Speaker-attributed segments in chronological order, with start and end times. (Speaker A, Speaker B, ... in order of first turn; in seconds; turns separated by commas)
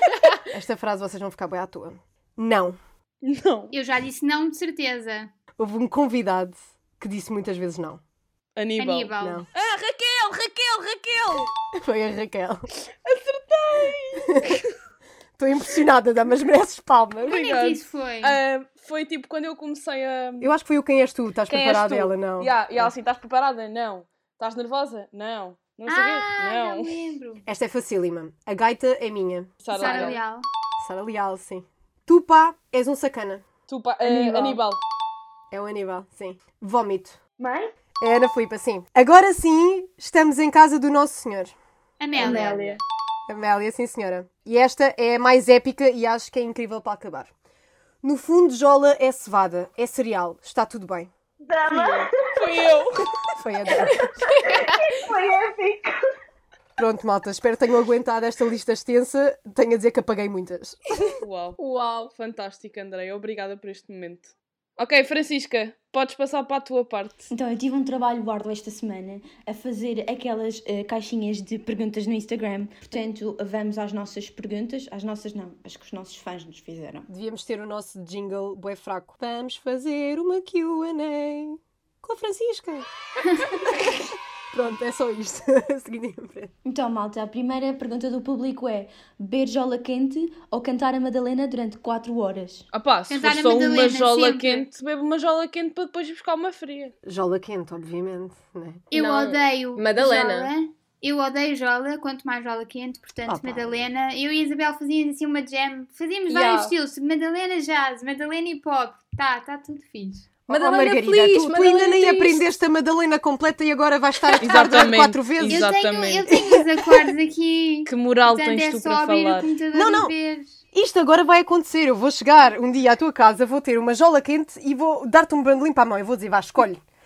Speaker A: 0.5-2.8, Speaker B: 3.2-3.7, Speaker C: 3.7-5.3, Speaker A: 5.6-8.0, Speaker B: 8.6-11.5, Speaker C: 8.8-9.4, Speaker A: 9.2-9.5, Speaker A: 11.7-12.7, Speaker B: 13.0-14.7, Speaker A: 14.3-14.6, Speaker A: 15.4-17.4, Speaker C: 17.3-18.4, Speaker B: 17.3-20.5, Speaker A: 20.4-22.9, Speaker B: 21.5-27.0, Speaker C: 25.9-27.4, Speaker A: 27.5-30.1, Speaker B: 29.6-30.2, Speaker C: 29.7-30.5, Speaker A: 30.8-33.4, Speaker B: 33.7-34.8, Speaker A: 34.0-34.6, Speaker A: 35.5-37.2, Speaker D: 37.4-37.7, Speaker A: 38.0-41.5, Speaker C: 42.0-42.6, Speaker D: 42.2-42.8, Speaker A: 43.3-47.3, Speaker A: 48.0-51.1, Speaker D: 51.5-52.7, Speaker B: 51.7-53.1, Speaker A: 53.4-54.1, Speaker D: 53.9-55.9, Speaker A: 56.8-60.8, Speaker B: 61.2-61.6, Speaker E: 61.6-62.1, Speaker B: 62.1-67.3, Speaker F: 67.3-77.1, Speaker A: 77.1-82.9, Speaker A: 84.5-86.5, Speaker F: 86.6-92.7, Speaker B: 92.7-96.9, Speaker C: 93.1-94.7, Speaker A: 97.0-98.9, Speaker C: 98.9-110.3, Speaker E: 98.9-100.5, Speaker A: 103.3-103.8, Speaker E: 106.3-106.8, Speaker A: 110.5-115.7, Speaker E: 110.5-112.4, Speaker B: 114.4-116.3, Speaker C: 115.5-120.5, Speaker A: 116.3-116.7, Speaker B: 117.9-119.5, Speaker A: 119.7-120.1, Speaker A: 120.7-126.8